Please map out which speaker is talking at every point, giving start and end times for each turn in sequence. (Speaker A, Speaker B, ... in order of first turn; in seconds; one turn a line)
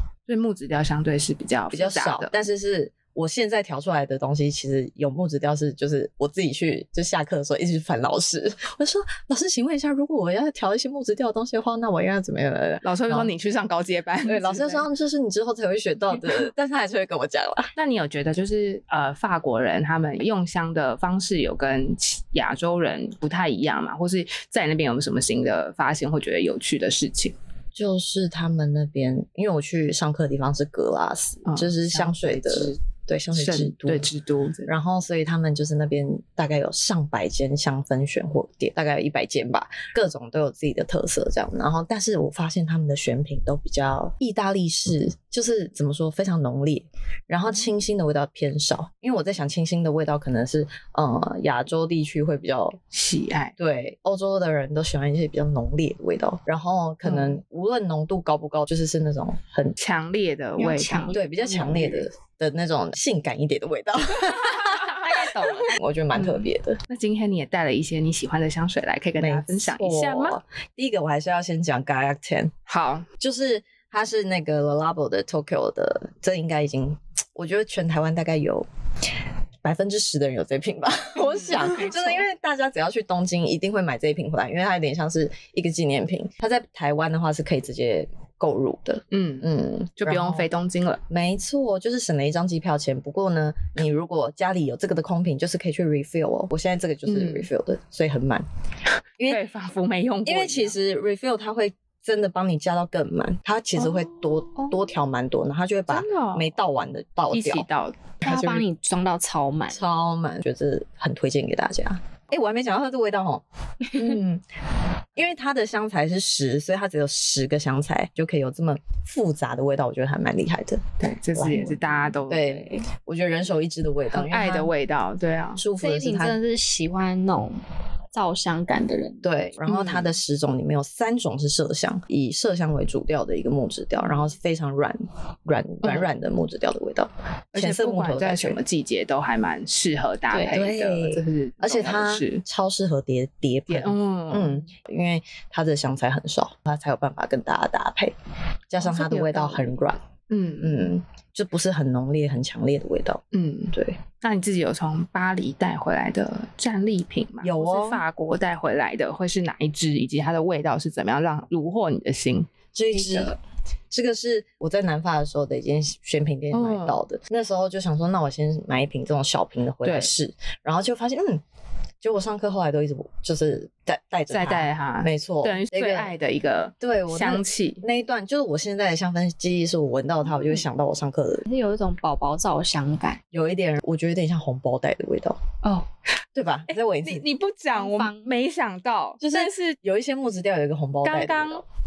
Speaker A: 0.3-2.3
Speaker B: 1.7-13.3
Speaker A: 12.8-14.9
Speaker B: 14.3-17.7
Speaker A: 17.8-27.4
Speaker B: 27.8-34.1
Speaker A: 31.5-32.8
Speaker A: 33.3-34.7
Speaker B: 34.7-52.8
Speaker A: 52.9-53.5
Speaker B: 53.6-59.8
Speaker A: 57.0-57.4
Speaker A: 59.8-62.0
Speaker C: 60.6-61.9
Speaker B: 61.1-66.8
Speaker C: 64.9-65.8
Speaker A: 66.2-70.4
Speaker B: 69.2-72.5
Speaker A: 72.7-73.1
Speaker B: 73.2-78.7
Speaker B: 79.6-90.5
Speaker A: 81.3-82.2
Speaker A: 89.1-89.5
Speaker A: 90.0-91.0
Speaker B: 91.1-98.5
Speaker A: 97.1-97.5
Speaker A: 99.3-100.8
Speaker B: 100.2-107.7
Speaker A: 103.8-104.7
Speaker A: 105.9-106.5
Speaker A: 107.3-108.5
Speaker C: 108.2-109.8
Speaker B: 108.2-108.6
Speaker B: 109.7-114.4
Speaker B: 115.2-124.7
Speaker A: 121.0-122.8
Speaker A: 124.1-125.6
Speaker B: 125.6-126.4
Speaker C: 125.8-127.6
Speaker C: 128.1-129.2
Speaker B: 129.2-138.6
Speaker A: 129.7-130.1
Speaker A: 135.8-136.1
Speaker A: 137.5-142.4
Speaker C: 140.3-140.7
Speaker B: 140.5-148.1
Speaker A: 143.7-144.6
Speaker B: 148.7-150.1
Speaker A: 148.8-150.9
Speaker B: 150.6-154.0
Speaker A: 153.3-162.5
Speaker B: 157.4-158.0
Speaker B: 162.7-163.4
Speaker B: 163.9-171.4
Speaker A: 166.5-167.0
Speaker A: 169.8-170.1
Speaker B: 172.0-176.1
Speaker A: 174.3-177.8
Speaker B: 176.8-181.5
Speaker C: 181.5-183.2
Speaker B: 183.3-185.4
Speaker B: 186.3-187.2
Speaker A: 186.7-189.8
Speaker C: 187.7-188.3
Speaker B: 189.2-191.6
Speaker A: 191.0-191.6